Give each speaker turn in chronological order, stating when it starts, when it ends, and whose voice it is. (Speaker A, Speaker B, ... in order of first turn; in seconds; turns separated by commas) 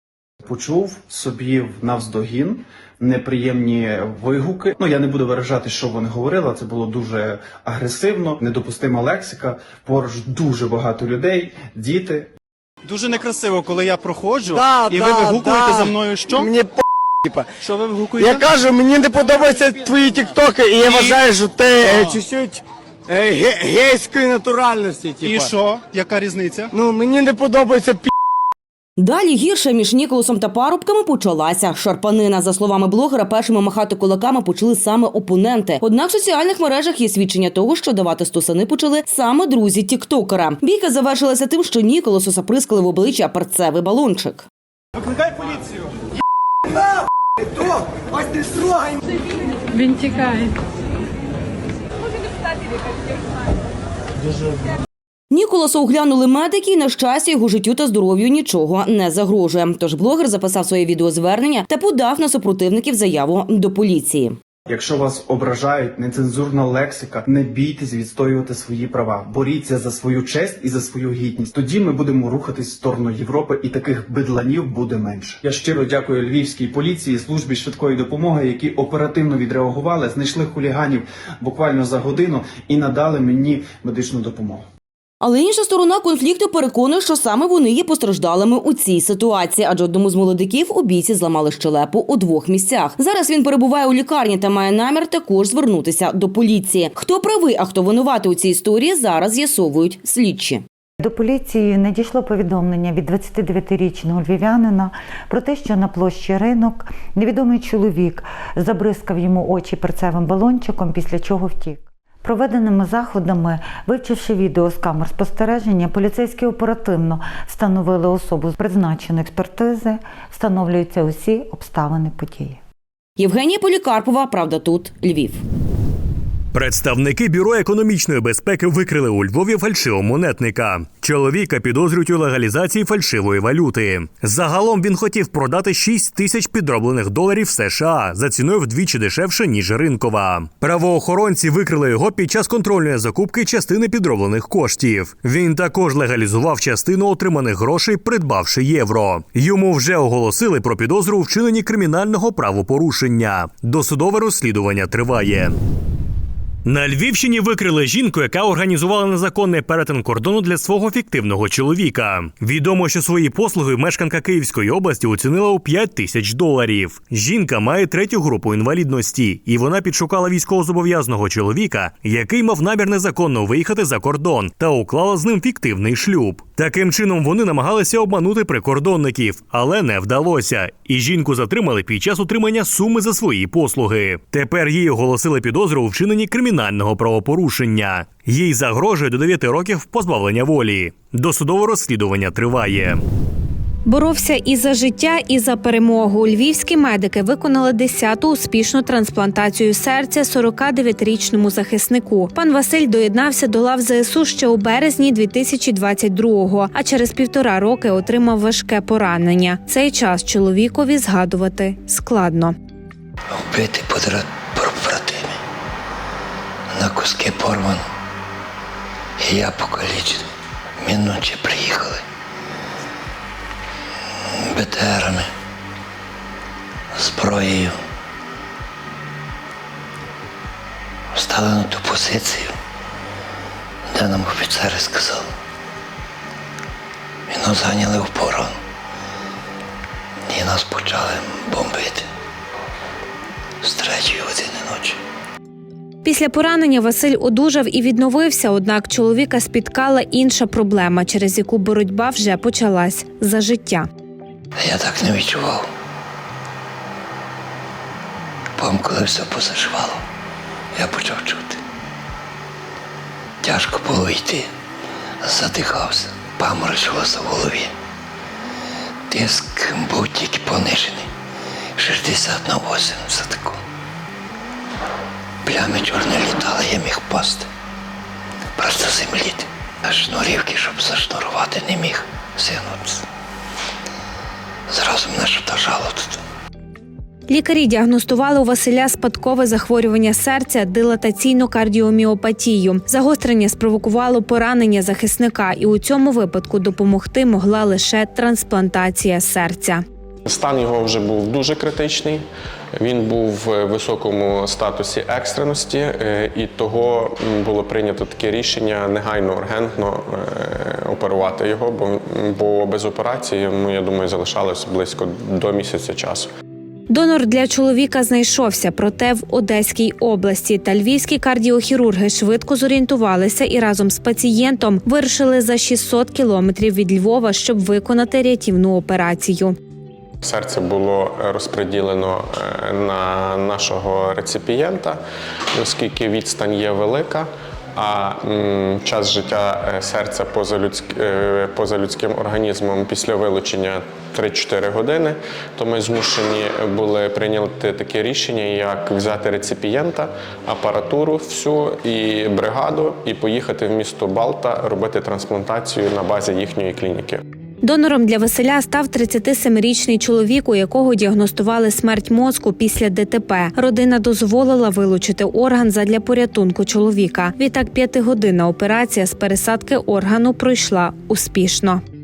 Speaker A: 0.4-12.3, Speaker B: 12.9-16.4, Speaker C: 14.5-17.6, Speaker B: 17.8-18.4, Speaker C: 18.1-25.5, Speaker B: 20.9-21.2, Speaker B: 25.2-26.6, Speaker A: 25.5-25.9, Speaker C: 26.7-28.1, Speaker D: 29.0-44.5, Speaker D: 55.3-64.4, Speaker A: 64.7-84.7, Speaker D: 85.2-100.6, Speaker E: 101.0-122.6, Speaker D: 123.2-125.4, Speaker F: 126.5-155.6, Speaker F: 156.6-193.0, Speaker G: 193.9-212.6, Speaker H: 213.3-215.4, Speaker H: 216.7-217.8, Speaker H: 219.2-220.3, Speaker H: 220.8-222.0, Speaker H: 224.4-225.3, Speaker H: 226.9-227.8, Speaker H: 231.1-232.6, Speaker H: 233.9-235.3, Speaker H: 237.3-238.5, Speaker H: 240.3-242.1, Speaker H: 243.6-245.0, Speaker G: 246.0-253.9, Speaker H: 254.6-255.7, Speaker H: 258.6-260.0, Speaker H: 260.8-261.6, Speaker H: 263.4-264.5, Speaker H: 265.2-267.7, Speaker H: 269.1-271.1, Speaker H: 271.8-273.6, Speaker H: 275.4-277.5, Speaker H: 278.6-283.1, Speaker H: 284.7-286.2, Speaker G: 287.3-299.8, Speaker I: 300.3-316.3, Speaker G: 316.9-329.6, Speaker I: 330.2-335.0, Speaker I: 335.6-357.2, Speaker G: 357.6-371.8